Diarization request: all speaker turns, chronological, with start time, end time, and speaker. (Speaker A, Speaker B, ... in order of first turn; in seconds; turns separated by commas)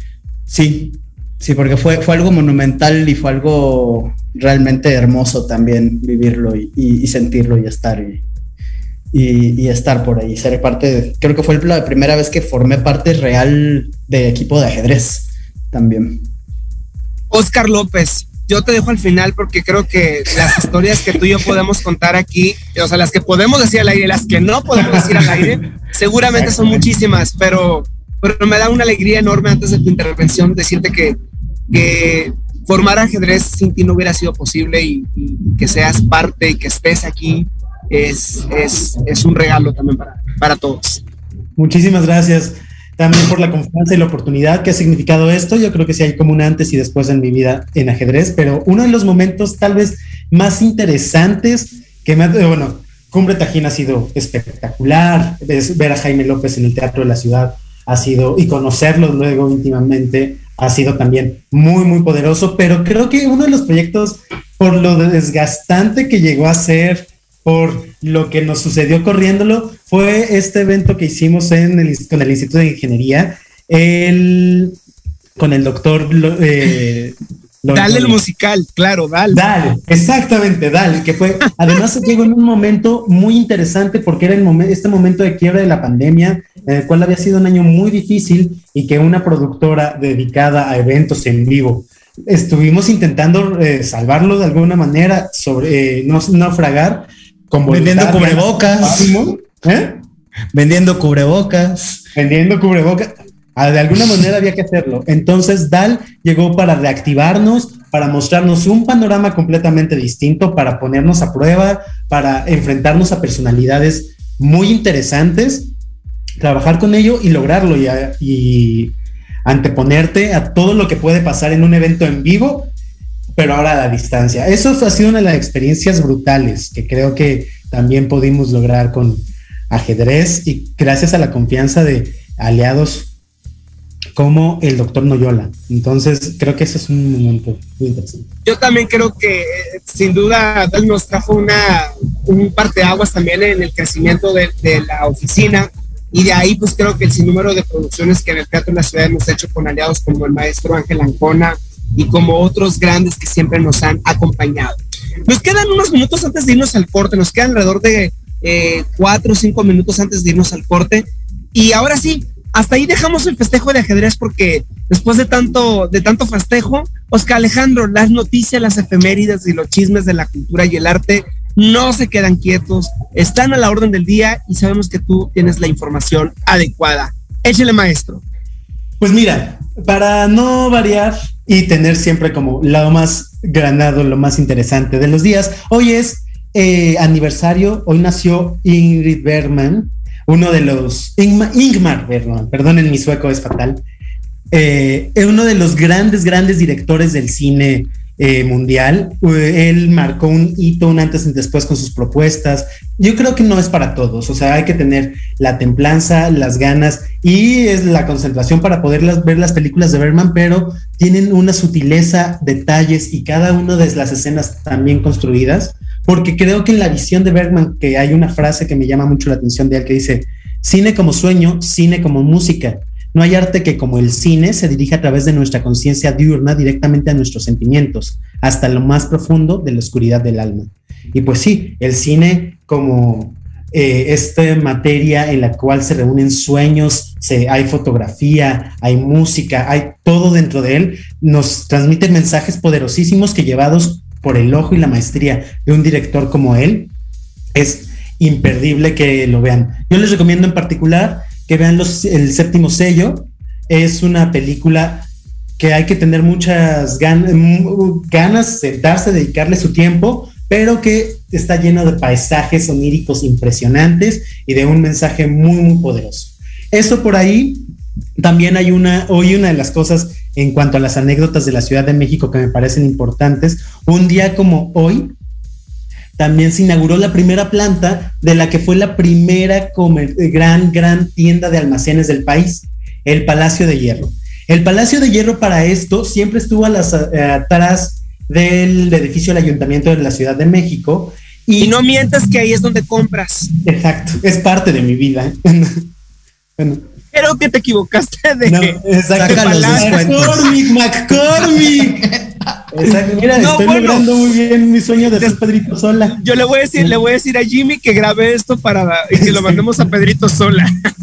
Speaker A: 0.5-8.2, Speaker A: 9.1-16.3, Speaker B: 17.3-31.2, Speaker C: 24.9-25.2, Speaker C: 26.4-26.8, Speaker B: 31.7-41.0, Speaker C: 41.5-74.8, Speaker C: 75.4-78.2, Speaker B: 77.7-79.4, Speaker C: 79.3-100.0, Speaker A: 97.7-99.3, Speaker A: 100.5-102.0, Speaker C: 102.1-115.7, Speaker C: 116.4-122.7, Speaker C: 123.3-133.1, Speaker C: 134.1-138.2, Speaker B: 138.4-178.2, Speaker C: 179.0-193.8, Speaker C: 194.5-246.9, Speaker C: 247.5-267.6, Speaker C: 268.2-275.1, Speaker C: 276.2-291.8, Speaker B: 291.6-293.5, Speaker C: 293.6-295.9, Speaker C: 296.6-296.8, Speaker B: 297.1-300.0, Speaker C: 298.4-302.1, Speaker A: 299.1-300.5, Speaker C: 302.7-306.2, Speaker B: 303.4-304.2, Speaker B: 304.9-305.4, Speaker B: 306.1-310.9, Speaker C: 309.2-309.7